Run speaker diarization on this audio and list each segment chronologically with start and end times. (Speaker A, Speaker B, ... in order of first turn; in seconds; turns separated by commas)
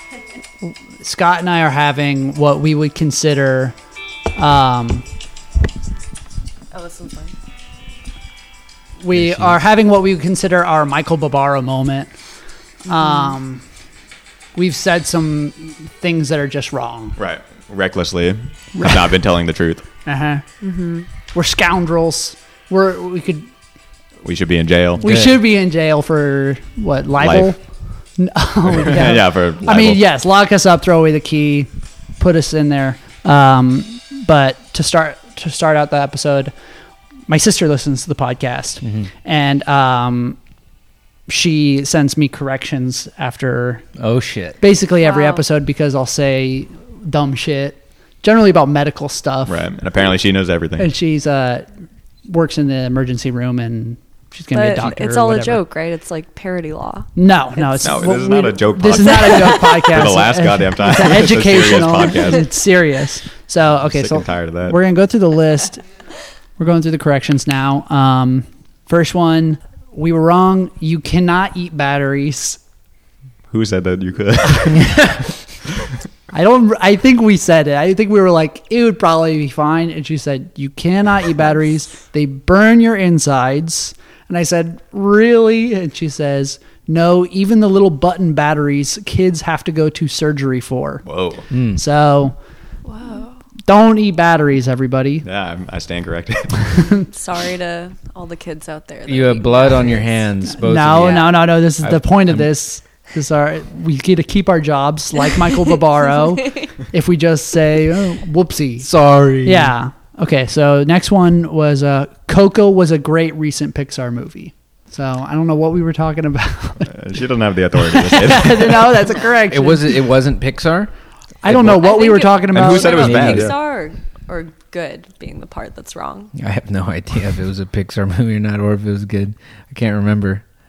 Speaker A: 0.6-3.8, Speaker A: 4.3-5.0, Speaker B: 6.7-7.3, Speaker A: 9.0-12.1, Speaker C: 9.1-9.6, Speaker A: 12.8-13.6, Speaker B: 13.0-13.4, Speaker A: 14.6-17.2, Speaker D: 17.2-19.9, Speaker A: 18.7-19.1, Speaker A: 20.0-20.4, Speaker B: 20.6-21.1, Speaker A: 21.3-23.5, Speaker D: 24.2-25.1, Speaker C: 25.0-25.4, Speaker A: 25.0-27.6, Speaker D: 27.2-27.5, Speaker A: 28.2-36.5, Speaker D: 28.7-30.1, Speaker A: 37.3-40.4, Speaker C: 38.8-39.1, Speaker A: 41.3-43.9, Speaker C: 44.0-44.6, Speaker A: 44.6-49.6, Speaker B: 45.0-45.5, Speaker D: 49.5-50.9, Speaker A: 50.8-51.7, Speaker A: 52.3-55.6, Speaker B: 54.5-58.1, Speaker A: 57.2-65.9, Speaker D: 57.8-62.5, Speaker D: 63.7-64.8, Speaker A: 66.6-72.6, Speaker D: 73.5-75.1, Speaker C: 74.7-75.2, Speaker A: 76.3-91.1, Speaker D: 91.0-91.5, Speaker C: 91.5-91.8, Speaker A: 91.8-92.4, Speaker B: 92.9-93.4, Speaker A: 93.7-95.3, Speaker D: 95.2-97.0, Speaker B: 97.1-100.3, Speaker C: 99.1-102.5, Speaker A: 100.6-108.9, Speaker B: 101.0-101.3, Speaker C: 108.8-109.8, Speaker A: 109.4-117.2, Speaker D: 116.9-119.1, Speaker A: 117.8-120.1, Speaker C: 119.5-120.9, Speaker A: 121.4-123.5, Speaker C: 121.5-121.8, Speaker B: 121.7-126.3, Speaker D: 122.5-123.6, Speaker C: 123.0-123.5, Speaker C: 126.3-130.4